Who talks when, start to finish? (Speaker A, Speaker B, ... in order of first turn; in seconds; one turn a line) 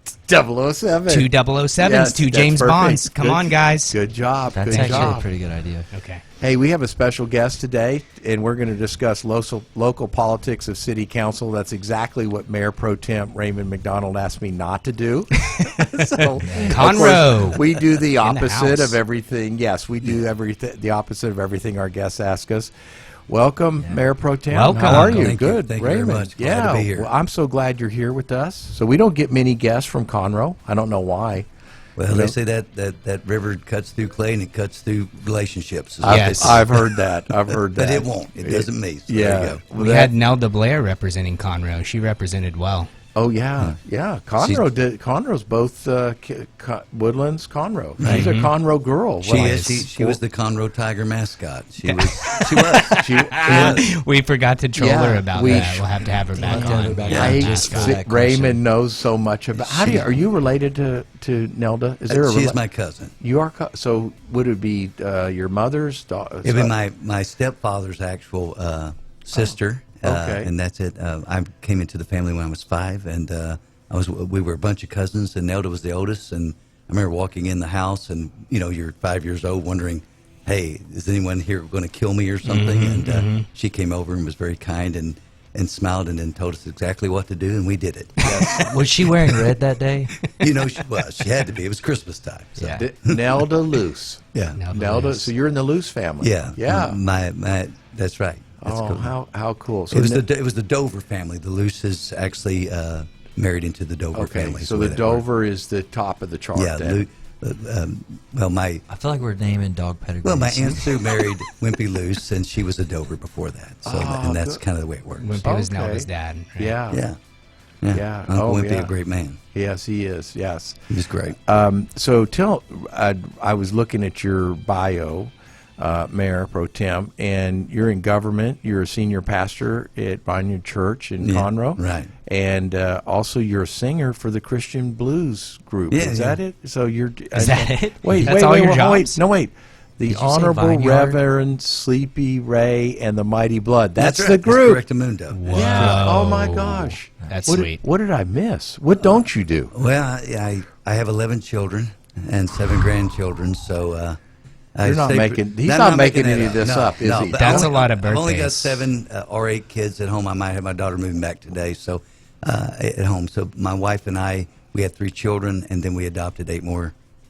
Speaker A: 0.2-5.3
Speaker B: 1.1-4.0
Speaker C: 4.5-5.9
Speaker B: 4.7-5.2
Speaker B: 5.9-6.2
Speaker A: 6.4-22.7
Speaker B: 15.4-19.0
Speaker C: 16.4-16.8
Speaker A: 23.3-31.5
Speaker B: 24.5-25.3
Speaker D: 24.8-27.1
Speaker D: 31.9-39.6
Speaker A: 32.1-32.4
Speaker A: 36.0-40.1
Speaker B: 36.0-36.6
Speaker B: 39.8-42.9
Speaker A: 43.1-50.2
Speaker D: 44.4-44.7
Speaker D: 48.0-48.3
Speaker B: 48.0-48.5
Speaker D: 49.2-53.8
Speaker B: 49.3-49.9
Speaker B: 51.8-58.0
Speaker A: 53.0-53.9
Speaker A: 54.7-62.6
Speaker C: 56.3-58.6
Speaker D: 59.6-60.0
Speaker D: 62.1-63.1
Speaker A: 63.2-66.7
Speaker D: 66.4-88.2
Speaker A: 69.3-70.5
Speaker B: 82.4-83.5
Speaker A: 88.2-88.7
Speaker B: 88.2-89.4
Speaker C: 88.6-90.1
Speaker D: 90.3-93.3
Speaker B: 90.6-91.2
Speaker C: 92.6-92.8
Speaker A: 92.7-97.0
Speaker D: 94.3-94.6
Speaker B: 94.5-95.3
Speaker D: 96.2-99.1
Speaker A: 98.6-100.2
Speaker D: 99.9-105.2
Speaker A: 104.1-107.0
Speaker D: 106.5-108.8
Speaker C: 108.9-111.0
Speaker D: 110.2-115.4
Speaker A: 113.8-114.6
Speaker B: 115.2-116.8
Speaker A: 115.4-117.0
Speaker D: 116.9-117.2
Speaker D: 117.8-119.4
Speaker A: 117.9-118.9
Speaker A: 119.5-144.8
Speaker D: 120.9-121.3
Speaker D: 131.2-132.1
Speaker D: 135.9-136.4
Speaker B: 137.3-139.2
Speaker C: 140.1-141.2
Speaker D: 143.9-146.0
Speaker B: 145.3-147.8
Speaker A: 145.5-149.7
Speaker D: 149.0-154.2
Speaker D: 154.7-166.9
Speaker A: 154.8-157.7
Speaker B: 157.3-158.9